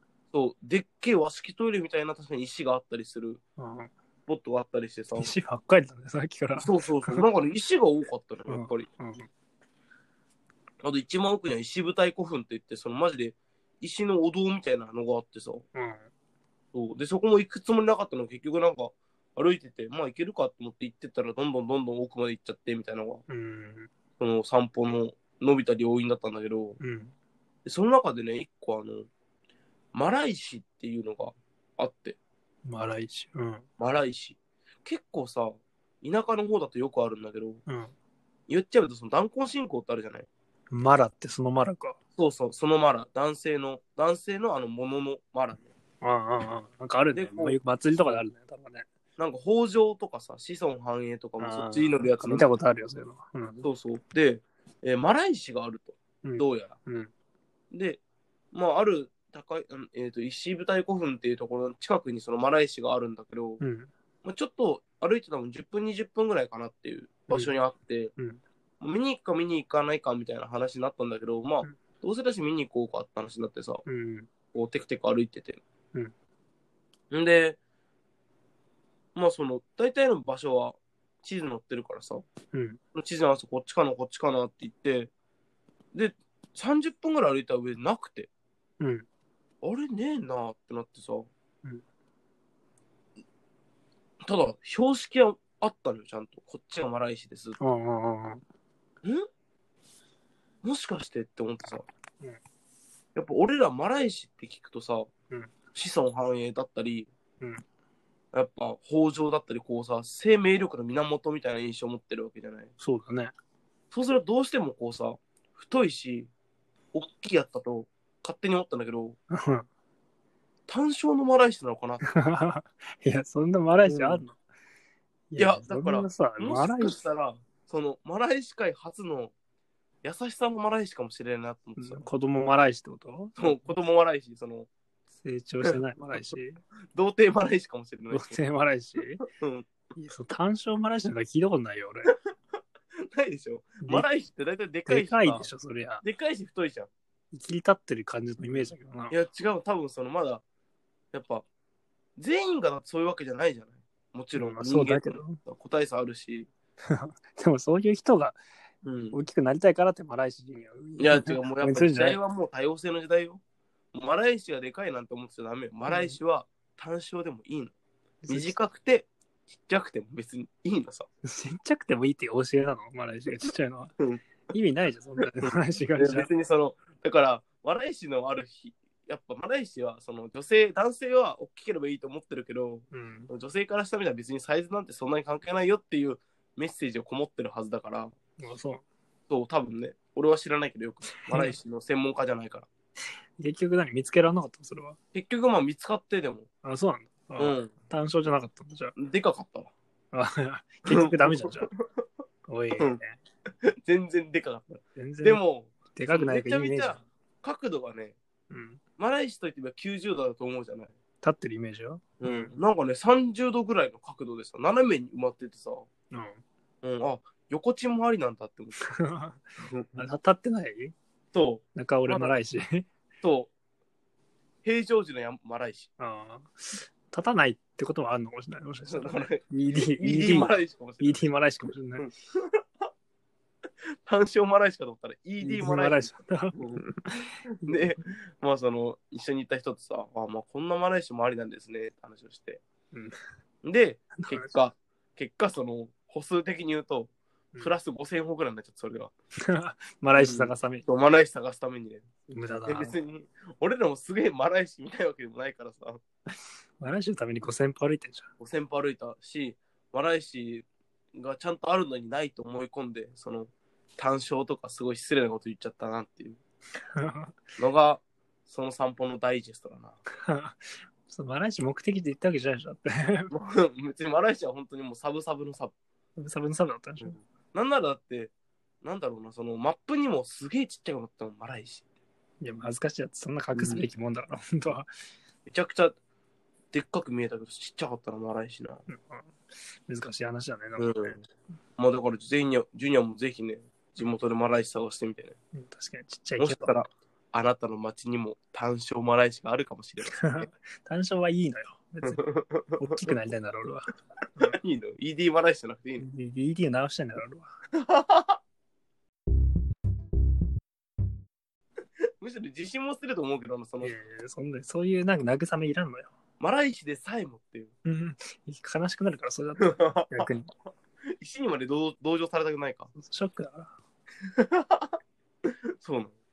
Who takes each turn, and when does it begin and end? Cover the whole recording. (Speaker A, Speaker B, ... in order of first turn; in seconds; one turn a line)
Speaker A: 0.3-3.4
Speaker B: 3.6-3.9
Speaker A: 4.3-5.3
Speaker B: 5.2-7.3
Speaker A: 6.5-8.9
Speaker B: 8.5-9.3
Speaker A: 10.8-15.7
Speaker B: 15.8-16.0
Speaker A: 16.7-23.2
Speaker B: 23.3-23.9
Speaker A: 24.2-26.8
Speaker B: 26.8-27.1
Speaker A: 27.7-29.1
Speaker A: 29.9-32.2
Speaker B: 32.7-33.6
Speaker A: 33.8-37.6
Speaker B: 37.7-37.9
Speaker A: 38.5-40.3
Speaker B: 40.7-42.0
Speaker A: 42.2-45.7
Speaker B: 46.0-48.9
Speaker A: 47.1-48.2
Speaker A: 49.2-52.6
Speaker B: 51.4-53.7
Speaker A: 53.6-56.8
Speaker B: 56.2-57.1
Speaker A: 57.7-58.0
Speaker A: 58.5-63.6
Speaker B: 63.6-63.9
Speaker A: 64.2-68.1
Speaker A: 68.8-73.8
Speaker B: 73.9-74.3
Speaker A: 74.5-75.6
Speaker A: 77.1-77.6
Speaker A: 79.2-82.2
Speaker B: 82.5-82.8
Speaker A: 83.0-85.1
Speaker A: 85.9-88.3
Speaker B: 88.8-89.1
Speaker A: 89.6-91.3
Speaker A: 94.2-97.6
Speaker B: 97.6-98.4
Speaker A: 100.6-101.9
Speaker A: 103.2-105.1
Speaker A: 105.7-107.1
Speaker A: 108.3-112.7
Speaker B: 112.8-113.3
Speaker A: 113.9-116.3
Speaker A: 116.9-119.2
Speaker B: 119.3-119.7
Speaker A: 120.7-122.0
Speaker B: 122.1-124.4
Speaker A: 123.9-124.2
Speaker B: 125.3-127.0
Speaker A: 125.4-129.3
Speaker A: 130.0-132.1
Speaker B: 131.8-133.7
Speaker A: 133.4-134.7
Speaker B: 135.2-136.6
Speaker A: 135.6-136.3
Speaker A: 136.9-138.4
Speaker B: 138.1-139.2
Speaker A: 139.3-139.7
Speaker B: 140.0-142.1
Speaker A: 143.1-145.5
Speaker B: 144.9-146.0
Speaker A: 146.0-146.9
Speaker B: 147.3-149.2
Speaker A: 149.1-150.4
Speaker A: 151.1-151.4
Speaker A: 152.2-156.5
Speaker B: 154.4-155.4
Speaker B: 156.9-158.4
Speaker A: 158.8-159.2
Speaker B: 159.1-162.2
Speaker A: 161.0-163.4
Speaker A: 163.9-167.7
Speaker B: 165.9-166.2
Speaker B: 168.2-168.6
Speaker A: 168.3-171.1
Speaker B: 171.2-173.9
Speaker B: 174.5-176.3
Speaker A: 176.0-188.1
Speaker B: 182.9-183.3
Speaker B: 188.4-188.8
Speaker A: 189.3-192.7
Speaker B: 193.4-195.0
Speaker A: 195.1-196.5
Speaker B: 196.6-198.9
Speaker A: 197.4-197.7
Speaker A: 199.0-199.7
Speaker B: 200.1-201.7
Speaker A: 200.9-202.0
Speaker B: 202.5-203.1
Speaker A: 203.6-208.2
Speaker B: 205.0-205.4
Speaker B: 205.9-207.0
Speaker B: 208.5-208.8
Speaker A: 209.0-210.9
Speaker B: 211.2-212.6
Speaker A: 212.2-215.9
Speaker B: 216.1-216.4
Speaker A: 216.8-218.8
Speaker B: 218.9-219.4
Speaker A: 219.6-220.1
Speaker B: 220.0-220.9
Speaker A: 221.3-222.3
Speaker B: 221.8-222.9
Speaker A: 223.2-223.5
Speaker A: 224.6-225.9
Speaker B: 226.0-232.1
Speaker A: 228.9-231.2
Speaker A: 232.0-232.6
Speaker A: 234.1-236.8
Speaker B: 235.4-237.1
Speaker A: 237.6-242.6
Speaker A: 243.6-249.1
Speaker B: 244.2-244.5
Speaker B: 249.5-250.8
Speaker A: 250.2-252.1
Speaker B: 252.3-252.9
Speaker A: 252.7-256.0
Speaker B: 256.8-258.3
Speaker A: 258.4-266.4
Speaker B: 267.0-267.4
Speaker A: 267.6-270.0
Speaker B: 270.2-273.3
Speaker A: 273.3-275.7
Speaker B: 276.2-277.2
Speaker A: 277.0-281.8
Speaker B: 282.4-284.9
Speaker A: 283.6-283.9
Speaker A: 285.5-286.0
Speaker A: 286.7-288.8
Speaker B: 288.9-291.2
Speaker A: 290.8-291.2
Speaker A: 291.8-295.4
Speaker B: 295.5-296.8
Speaker A: 296.4-300.5
Speaker B: 300.1-302.2
Speaker A: 302.0-302.8
Speaker B: 302.8-304.6
Speaker A: 304.5-306.1
Speaker B: 306.0-307.5
Speaker A: 307.8-308.4
Speaker A: 312.2-313.9
Speaker B: 313.8-316.1
Speaker A: 316.4-317.7
Speaker B: 317.9-320.5
Speaker A: 319.6-320.3
Speaker A: 321.2-322.9
Speaker B: 323.0-323.7
Speaker A: 324.4-324.9
Speaker A: 325.8-326.2